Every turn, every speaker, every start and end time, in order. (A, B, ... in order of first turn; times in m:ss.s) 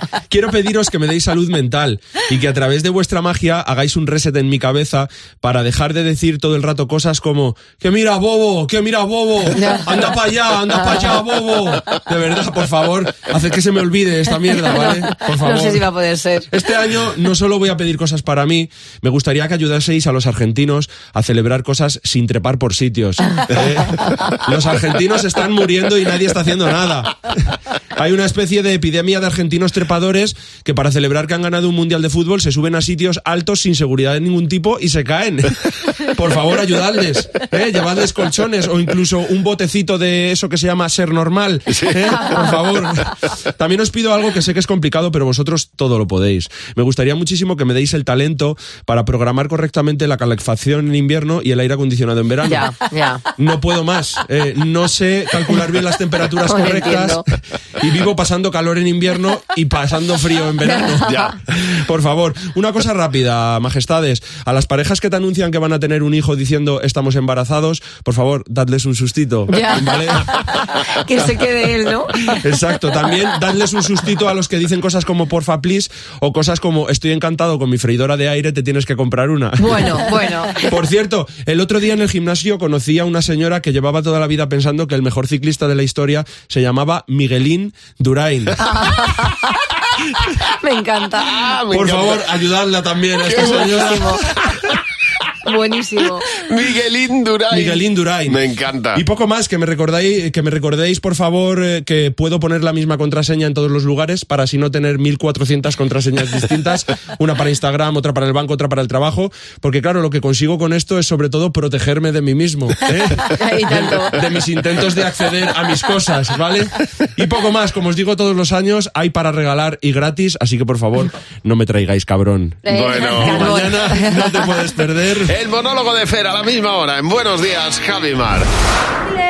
0:00.3-0:15.9 A
0:09.6-0:10.1 B
0:10.7-0:11.1 B
0:14.4-0:16.5 B
0:16.5-0:27.1 A
0:28.0-0:52.7 A
0:41.7-0:42.2 C
0:42.2-0:42.5 B
0:52.5-0:53.2 B
0:53.4-0:57.2 A
0:56.5-0:57.2 B
0:57.8-1:10.4 A
1:00.7-1:01.4 B
1:09.5-1:12.4 B
1:12.3-1:20.0 A
1:19.6-1:20.7 B
1:20.6-1:28.6 A
1:28.6-1:29.4 B
1:30.6-1:31.4 B
1:31.2-1:32.2 C
1:31.7-1:34.1 A
1:33.2-1:34.2 C
1:33.4-1:34.2 B
1:35.5-1:36.3 B
1:36.4-1:39.0 C
1:37.5-1:38.4 A
1:39.0-2:05.3 A
1:53.2-1:54.2 B
2:02.7-2:03.6 C
2:02.7-2:04.4 B
2:05.3-2:08.5 C